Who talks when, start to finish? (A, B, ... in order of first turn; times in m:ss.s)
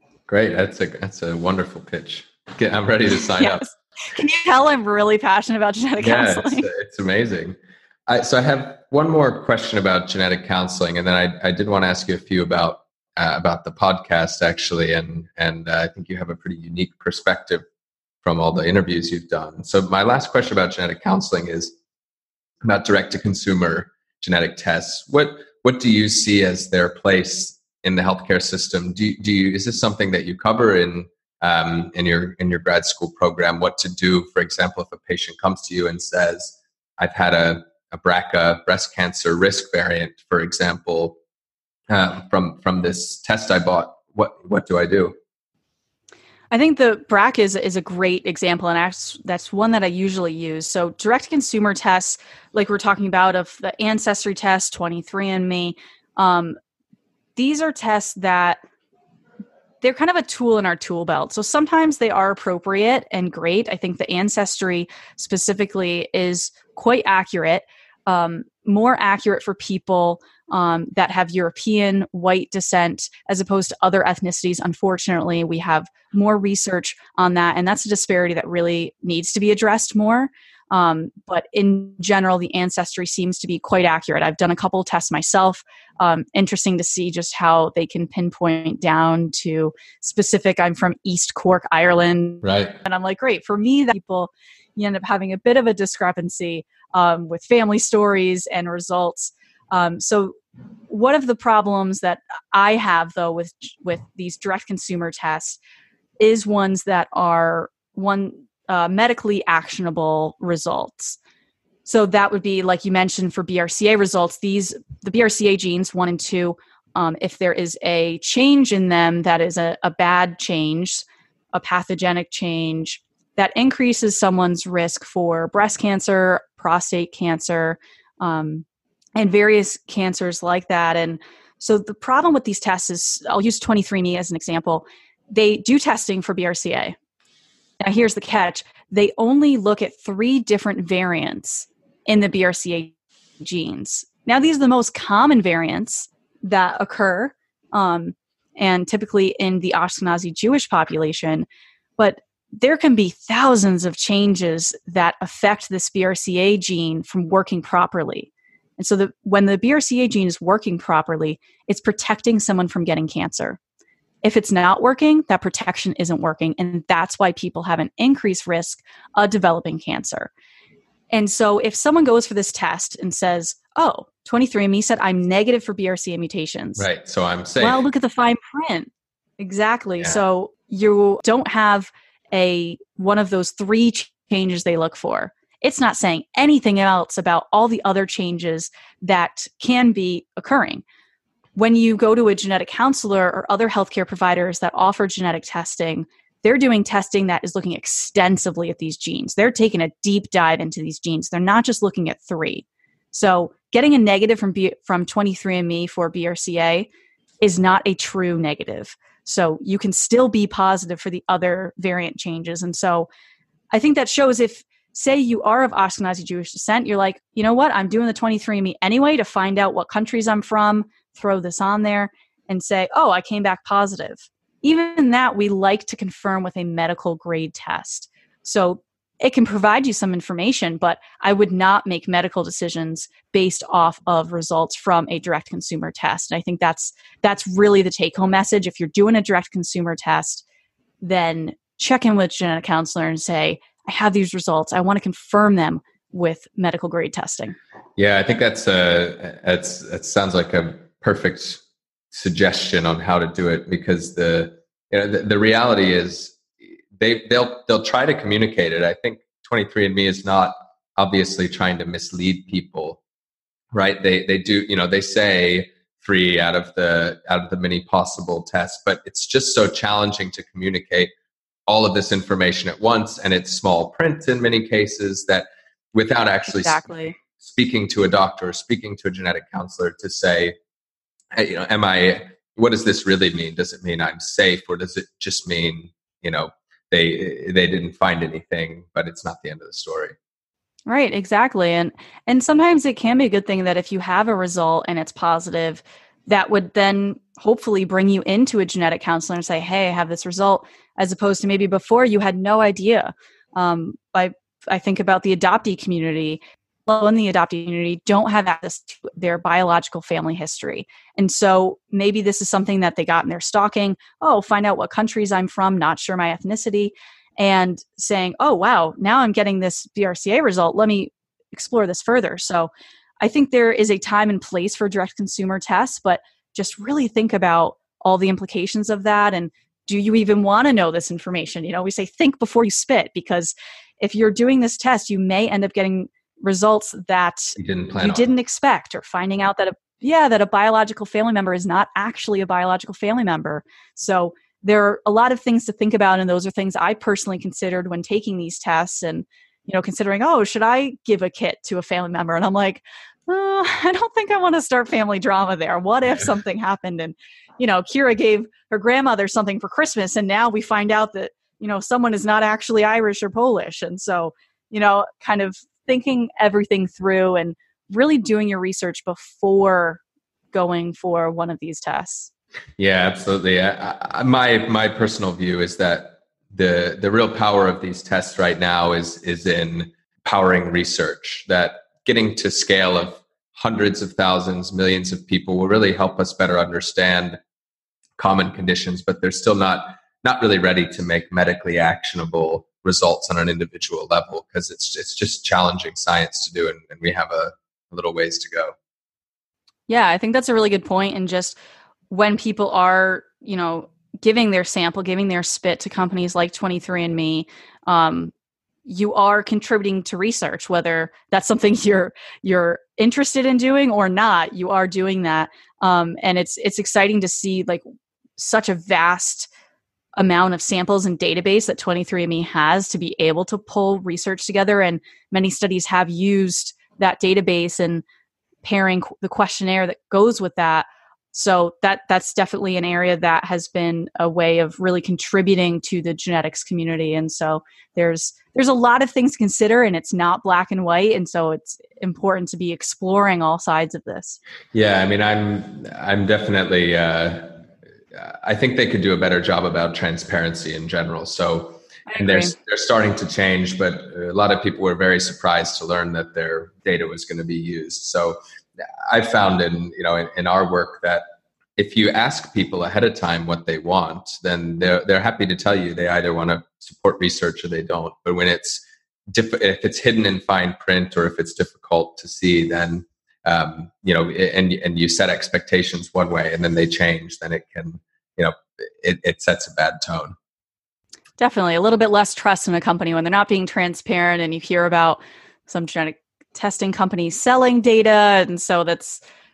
0:00.3-0:03.6 A
0:03.4-0:06.7 B
0:06.0-0:17.6 A
0:18.2-0:21.7 A
0:22.6-0:41.2 A
0:41.9-0:45.2 A
0:46.5-0:56.6 B
0:57.4-0:58.6 B
0:59.8-1:40.3 B
1:32.4-1:32.8 A
1:40.9-1:45.6 B
1:46.2-1:51.2 B
1:51.8-2:08.6 B
2:09.2-2:17.0 B
2:17.8-2:31.4 B
2:32.0-2:43.6 B
2:44.2-2:50.3 B
2:51.1-2:56.8 B
2:56.8-2:57.8 A
2:57.6-3:10.8 B
3:11.6-3:26.9 B
3:27.4-3:33.1 B
3:33.7-4:00.4 B
4:01.0-4:07.6 B
4:08.0-4:16.4 A
4:16.9-4:23.0 A
4:23.7-4:31.1 A
4:31.7-4:40.6 A
4:36.5-4:37.1 B
4:41.3-4:50.2 A
4:50.9-6:10.0 B
5:37.6-5:38.3 A
6:10.5-6:12.3 B
6:12.8-6:27.4 A
6:28.2-6:38.7 A
6:39.9-6:41.6 B
6:42.1-6:48.3 B
6:48.8-6:57.8 B
6:58.4-6:59.5 B
7:00.2-7:08.0 B
7:08.6-7:24.4 B
7:24.7-7:27.5 A
7:28.1-7:38.4 A
7:32.1-7:32.5 B
7:39.1-7:41.2 A
7:41.8-8:00.3 A
8:01.4-8:09.2 B